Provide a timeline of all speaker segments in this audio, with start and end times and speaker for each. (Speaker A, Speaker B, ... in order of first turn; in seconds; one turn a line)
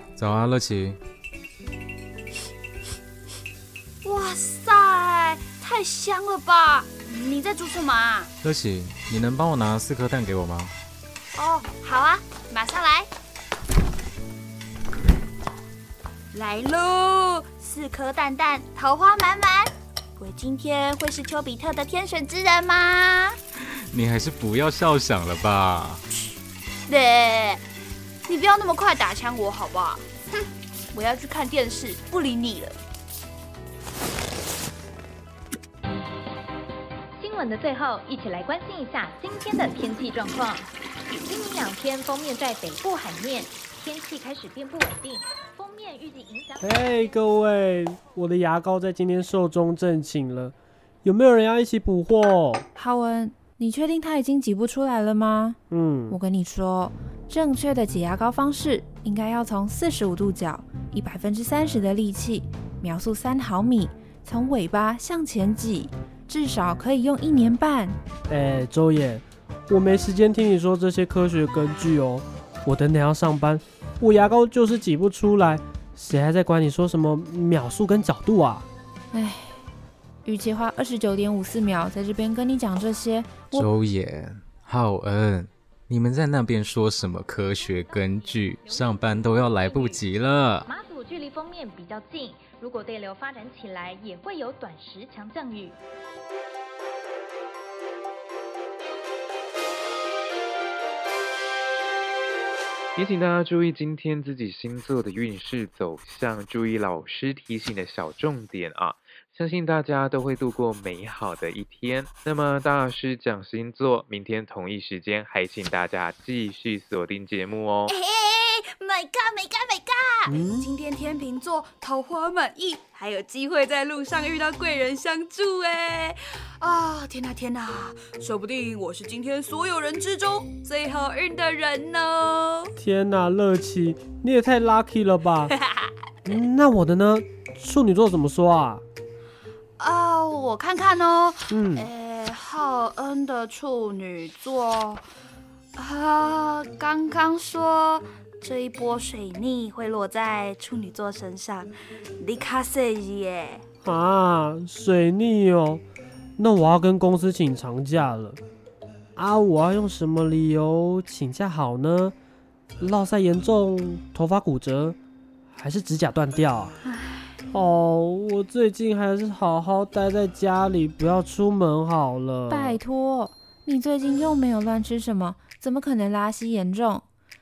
Speaker A: 0.2-1.0
Speaker B: 4.0-8.3
Speaker A: 8.4-10.7
Speaker B: 11.3-13.1
Speaker B: 16.3-23.4
Speaker A: 23.9-26.0
Speaker B: 26.9-27.6
Speaker B: 28.3-32.8
Speaker C: 37.2-46.7
Speaker D: 46.6-52.6
Speaker E: 52.8-55.6
Speaker D: 55.7-56.2
Speaker E: 56.1-68.0
Speaker D: 68.3-78.7
Speaker E: 79.1-79.6
Speaker E: 80.2-83.7
Speaker A: 83.5-90.7
Speaker C: 88.8-90.0
Speaker C: 90.7-95.8
Speaker F: 103.0-117.9
Speaker B: 117.9-132.7
Speaker D: 120.3-120.7
Speaker D: 132.8-135.6
Speaker B: 135.6-135.9
Speaker D: 136.3-138.8
Speaker B: 139.8-145.0
Speaker D: 141.5-141.9
Speaker B: 145.8-153.6
Speaker D: 153.8-155.8
Speaker D: 156.4-158.4
Speaker D: 159.2-162.2
Speaker D: 162.8-165.0
Speaker D: 165.6-166.7
Speaker B: 166.9-167.3
Speaker D: 167.5-172.8
Speaker E: 172.5-177.1